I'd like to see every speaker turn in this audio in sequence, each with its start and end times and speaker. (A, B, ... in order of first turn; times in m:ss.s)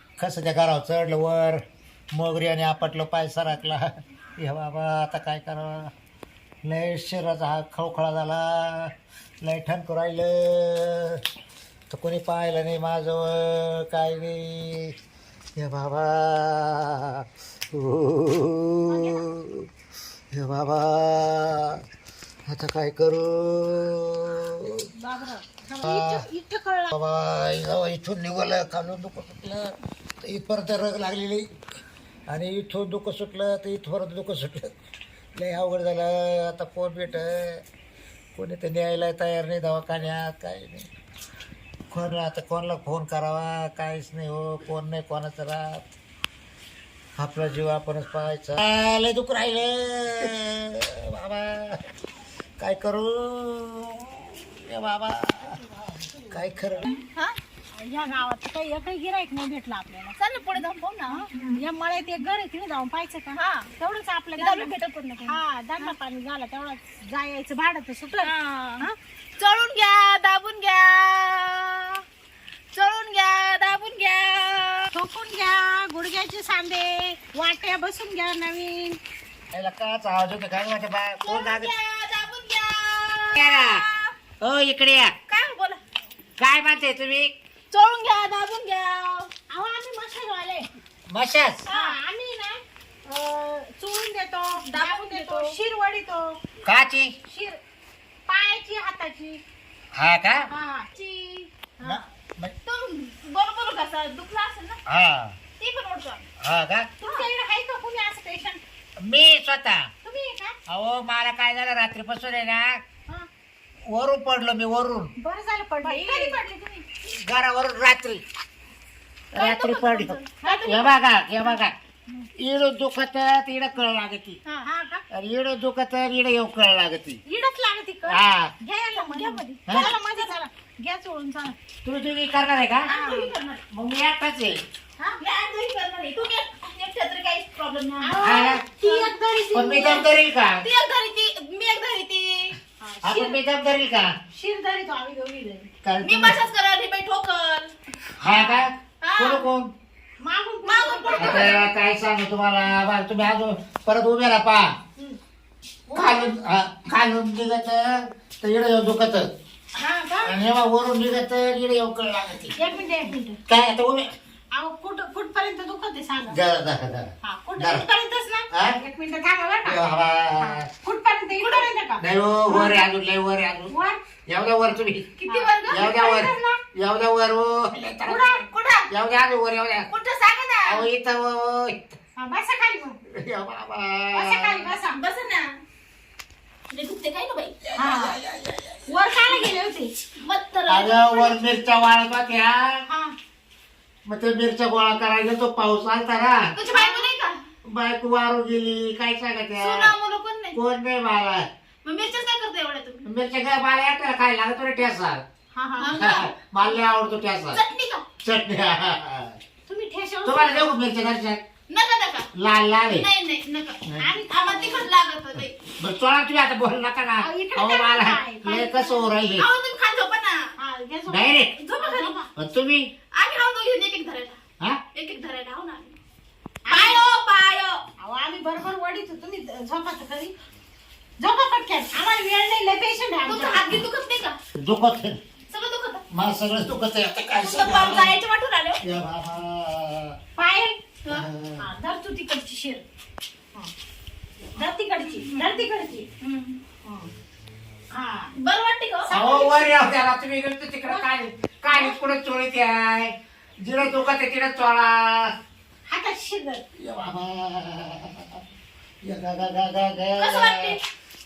0:00.2-0:05.9 A
0:06.6-0:11.2 A
0:11.9-0:15.0 A
0:15.6-0:19.7 A
0:18.9-0:19.3 B
0:20.3-0:21.8 A
0:22.5-0:24.9 A
0:25.0-0:26.9 B
0:25.8-0:26.3 A
0:26.9-0:31.5 A
0:32.3-0:34.7 A
0:35.4-0:37.6 A
0:38.4-0:40.9 A
0:41.9-0:45.9 A
0:47.2-0:51.8 A
0:52.6-0:55.6 A
0:55.9-0:56.3 B
0:56.3-0:56.9 A
0:57.7-1:00.2 B
1:00.2-1:01.4 C
1:01.1-1:09.0 B
1:03.3-1:03.7 C
1:04.4-1:05.9 C
1:08.2-1:08.9 C
1:09.4-1:12.0 C
1:12.7-1:14.9 C
1:14.9-1:19.0 B
1:19.5-1:21.7 A
1:21.2-1:24.2 C
1:23.3-1:23.8 A
1:24.4-1:25.2 A
1:25.3-1:25.8 C
1:26.4-1:27.3 A
1:27.7-1:29.3 C
1:29.5-1:30.7 B
1:31.1-1:31.7 A
1:31.7-1:32.0 C
1:31.7-1:36.4 B
1:34.6-1:35.6 C
1:36.6-1:37.1 A
1:37.3-1:37.6 B
1:38.3-1:39.4 B
1:40.0-1:40.5 A
1:40.5-1:40.9 B
1:40.9-1:41.5 C
1:41.8-1:42.6 A
1:42.6-1:44.8 C
1:44.9-1:45.4 A
1:45.6-1:46.3 C
1:46.4-1:46.9 A
1:47.0-1:48.6 B
1:49.0-1:49.9 A
1:50.0-1:50.6 B
1:50.7-1:52.8 A
1:53.9-1:55.1 A
1:55.2-1:56.8 B
1:55.8-1:56.4 C
1:57.0-1:58.2 A
1:59.3-2:01.7 A
1:59.4-2:00.9 C
2:00.4-2:00.8 B
2:02.4-2:04.4 A
2:04.6-2:05.0 B
2:05.1-2:07.2 A
2:07.3-2:11.6 B
2:08.1-2:08.5 A
2:09.0-2:10.3 C
2:11.8-2:12.9 A
2:12.9-2:13.6 C
2:12.9-2:13.3 B
2:13.7-2:14.6 A
2:15.2-2:19.1 C
2:18.0-2:20.1 B
2:18.2-2:18.6 A
2:19.5-2:20.6 A
2:20.6-2:22.6 C
2:22.8-2:23.4 B
2:23.0-2:24.1 A
2:24.3-2:25.7 B
2:25.8-2:26.4 A
2:26.0-2:27.7 C
2:28.2-2:29.7 A
2:29.0-2:29.5 C
2:30.2-2:31.6 B
2:30.6-2:31.7 C
2:31.2-2:34.7 A
2:35.9-2:36.3 B
2:35.9-2:39.3 A
2:39.8-2:40.4 B
2:40.2-2:42.6 A
2:42.6-2:43.4 B
2:43.5-2:44.1 A
2:44.5-2:46.4 B
2:46.3-2:47.9 A
2:47.2-2:49.8 B
2:48.5-2:48.8 A
2:49.6-2:50.7 A
2:50.4-2:52.8 B
2:51.4-2:51.7 C
2:52.0-2:53.7 A
2:53.7-2:54.0 B
2:54.3-2:55.1 A
2:55.2-2:55.9 C
2:55.3-2:56.6 B
2:55.7-2:59.9 A
2:58.0-2:58.9 C
2:59.9-3:00.9 C
3:00.6-3:02.0 A
3:02.2-3:03.0 B
3:03.1-3:04.8 A
3:04.1-3:05.0 B
3:04.9-3:05.6 C
3:06.7-3:07.6 C
3:07.6-3:09.4 A
3:07.8-3:08.2 B
3:08.9-3:09.9 B
3:10.2-3:11.6 C
3:10.7-3:12.8 A
3:12.9-3:13.1 B
3:14.1-3:16.5 A
3:16.6-3:17.4 C
3:16.7-3:17.1 B
3:17.6-3:19.9 A
3:19.6-3:20.6 C
3:20.5-3:21.5 A
3:21.8-3:23.0 C
3:23.0-3:25.2 A
3:25.5-3:26.0 B
3:25.8-3:26.4 C
3:25.9-3:27.6 A
3:27.5-3:28.0 C
3:28.2-3:29.4 A
3:29.7-3:30.7 B
3:30.2-3:31.4 A
3:31.7-3:32.3 C
3:32.3-3:33.1 A
3:32.9-3:35.6 C
3:34.0-3:34.9 B
3:35.8-3:39.5 A
3:37.2-3:39.1 B
3:39.4-3:40.5 C
3:40.6-3:42.3 B
3:41.1-3:41.6 A
3:41.6-3:42.2 C
3:42.4-3:42.9 A
3:43.1-3:44.4 C
3:44.9-3:46.0 C
3:46.7-3:47.0 B
3:46.7-3:47.8 C
3:48.0-3:50.3 B
3:51.2-3:53.8 B
3:53.3-3:54.4 C
3:54.6-3:55.2 A
3:55.5-3:56.0 C
3:56.1-3:58.2 A
3:57.4-3:58.8 C
3:58.8-4:00.2 A
4:00.4-4:00.8 B
4:01.1-4:01.7 A
4:01.6-4:02.8 B
4:04.6-4:06.1 B
4:05.0-4:05.5 C
4:06.2-4:06.6 C
4:06.8-4:07.1 B
4:07.9-4:08.3 B
4:08.4-4:09.1 C
4:09.0-4:09.8 B
4:09.1-4:15.3 A
4:15.9-4:16.6 B
4:16.8-4:18.4 A
4:19.0-4:20.8 A
4:20.2-4:20.8 C